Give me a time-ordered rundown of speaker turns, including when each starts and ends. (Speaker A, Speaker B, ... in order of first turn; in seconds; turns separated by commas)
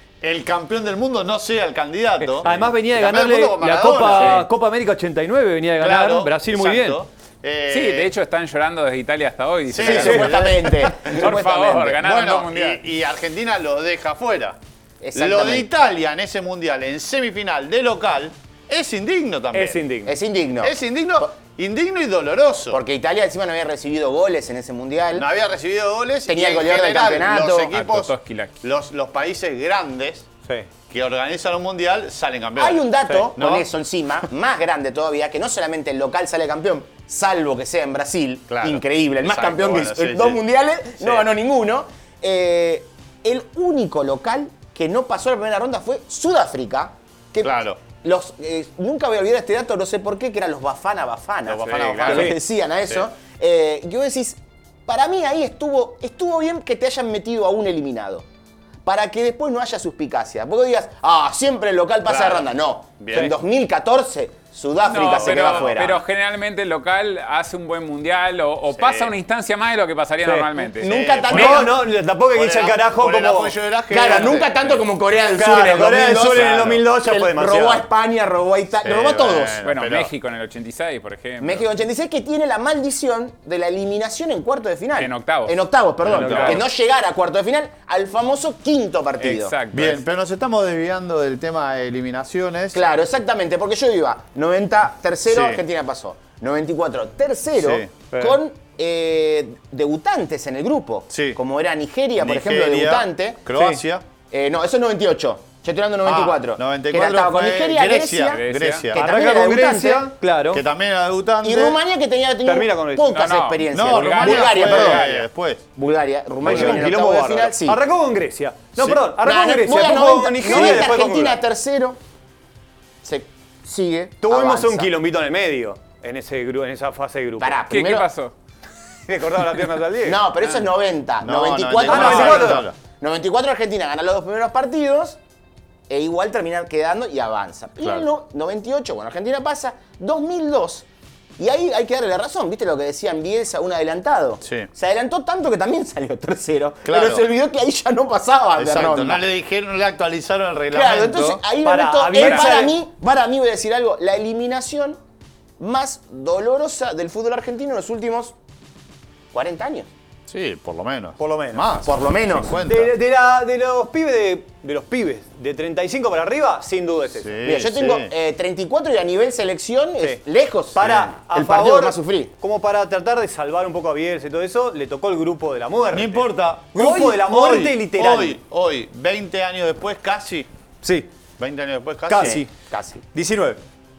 Speaker A: 0.2-4.4, Speaker B: 2.3-7.0, Speaker C: 4.1-4.4, Speaker A: 5.8-8.1, Speaker C: 7.7-10.5, Speaker A: 9.7-11.3, Speaker D: 9.8-12.0, Speaker B: 9.9-10.3, Speaker C: 11.0-12.8, Speaker A: 12.0-14.6, Speaker D: 15.0-15.7, Speaker A: 15.1-19.8, Speaker B: 19.5-20.1, Speaker D: 20.0-21.3, Speaker A: 20.6-22.8, Speaker D: 22.7-25.3, Speaker A: 25.1-30.3, Speaker D: 26.2-27.7, Speaker C: 27.7-28.6, Speaker A: 30.9-33.6, Speaker D: 32.5-58.2, Speaker A: 38.5-40.4, Speaker A: 41.0-41.3, Speaker A: 47.4-47.8, Speaker A: 51.5-52.4, Speaker C: 51.6-52.3, Speaker B: 52.1-52.4, Speaker D: 58.8-66.0, Speaker A: 62.0-62.5, Speaker A: 63.0-63.3, Speaker C: 64.8-70.9, Speaker A: 65.0-65.8, Speaker A: 68.7-69.1, Speaker B: 70.2-70.5, Speaker D: 70.7-71.8, Speaker A: 70.8-71.8, Speaker B: 71.3-73.5, Speaker A: 72.3-74.8, Speaker D: 73.9-79.6, Speaker B: 75.3-77.8, Speaker A: 76.3-76.8, Speaker A: 78.8-80.1, Speaker C: 79.6-81.6, Speaker D: 81.4-89.5, Speaker C: 85.0-86.6, Speaker A: 86.0-86.6, Speaker C: 89.2-90.0, Speaker A: 89.7-92.8, Speaker D: 92.7-103.5, Speaker A: 95.3-95.6, Speaker A: 97.6-97.9, Speaker B: 98.1-98.4, Speaker A: 101.1-101.4, Speaker A: 102.2-104.0, Speaker B: 103.5-103.8, Speaker D: 104.3-110.1, Speaker A: 106.0-109.0, Speaker C: 108.3-108.9, Speaker B: 108.9-110.6, Speaker A: 110.5-111.8, Speaker D: 111.4-115.1, Speaker B: 112.4-113.1, Speaker C: 113.1-115.2, Speaker A: 113.7-115.6, Speaker D: 115.8-117.8, Speaker A: 116.4-116.9, Speaker B: 116.4-121.4, Speaker D: 119.1-122.0, Speaker D: 123.0-124.9, Speaker B: 124.2-127.6, Speaker D: 127.4-128.1, Speaker C: 127.7-128.3, Speaker B: 129.1-130.2, Speaker D: 130.0-135.2, Speaker A: 131.2-132.8, Speaker B: 131.8-132.6, Speaker D: 135.9-140.8, Speaker D: 141.4-149.2, Speaker A: 144.4-144.7, Speaker A: 146.8-147.2, Speaker A: 148.6-151.4, Speaker D: 150.7-155.0, Speaker B: 151.6-152.8, Speaker C: 152.2-152.4, Speaker D: 155.6-158.3, Speaker D: 159.3-159.9, Speaker A: 160.3-162.9, Speaker B: 161.2-161.7, Speaker D: 161.8-162.6, Speaker B: 162.7-167.4, Speaker A: 167.2-168.1, Speaker D: 167.4-172.3, Speaker B: 170.7-178.4, Speaker A: 175.9-180.5, Speaker B: 180.8-181.1, Speaker A: 181.4-182.4, Speaker B: 182.1-182.5, Speaker D: 182.2-183.0, Speaker B: 183.1-183.6